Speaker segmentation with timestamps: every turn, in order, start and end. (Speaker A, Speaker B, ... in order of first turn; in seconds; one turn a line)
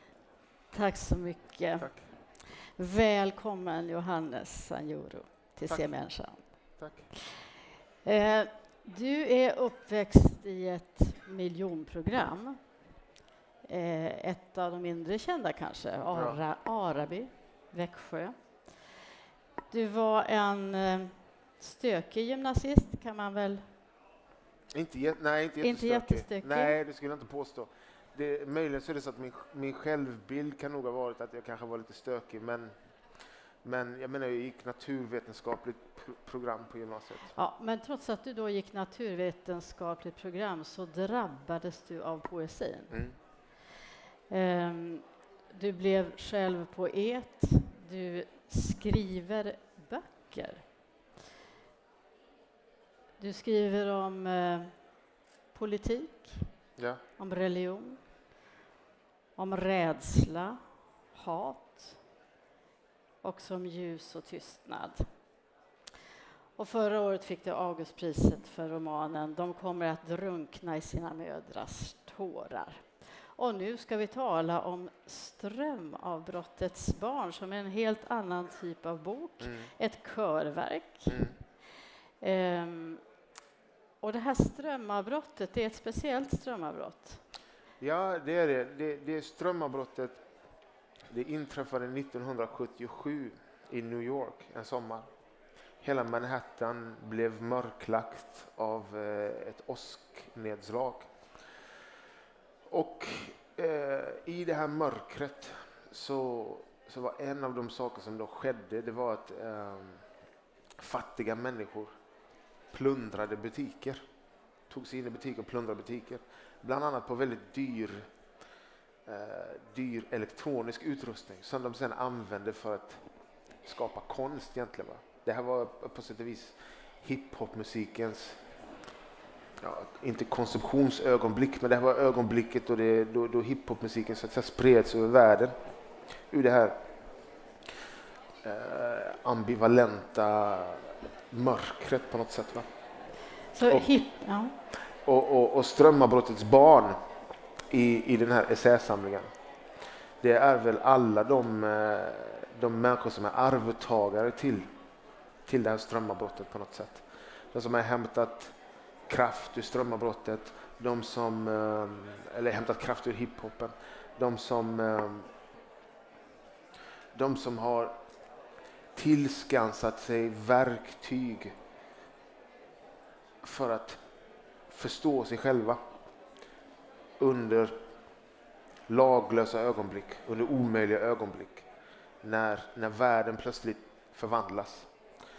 Speaker A: 0.7-6.6
Speaker B: 1.8-2.1
Speaker B: 5.6-5.9
Speaker B: 6.8-7.1
Speaker A: 8.0-12.6
Speaker A: 13.7-18.8
Speaker B: 16.1-16.4
Speaker A: 19.7-23.7
Speaker B: 24.7-32.7
Speaker A: 25.6-26.8
Speaker B: 33.6-37.4
Speaker A: 37.3-43.2
Speaker B: 42.9-43.2
Speaker A: 44.3-50.6
Speaker A: 53.2-54.8
Speaker A: 55.5-56.5
Speaker B: 56.8-57.0
Speaker A: 57.2-58.0
Speaker A: 59.4-60.6
Speaker A: 61.1-62.0
Speaker A: 63.2-65.0
Speaker A: 66.6-81.3
Speaker B: 79.4-79.7
Speaker B: 81.1-81.4
Speaker A: 82.2-83.0
Speaker A: 84.0-87.2
Speaker B: 87.8-90.2
Speaker B: 91.1-95.1
Speaker B: 95.8-101.1
Speaker B: 102.7-110.0
Speaker B: 110.8-111.9
Speaker B: 112.7-114.0
Speaker B: 114.7-118.1
Speaker B: 119.1-123.0
Speaker B: 123.6-128.4
Speaker B: 129.6-135.6
Speaker B: 136.3-136.8
Speaker B: 138.4-142.7
Speaker A: 143.5-144.6
Speaker B: 143.7-143.9
Speaker B: 145.1-147.0
Speaker B: 147.7-149.3
Speaker B: 150.2-154.7
Speaker B: 155.5-158.5
Speaker B: 159.1-165.3
Speaker B: 167.1-167.9
Speaker B: 168.9-171.5
Speaker B: 173.4-174.0
Speaker B: 174.7-175.8
Speaker B: 177.2-177.8
Speaker B: 178.9-181.7
Speaker B: 182.2-184.9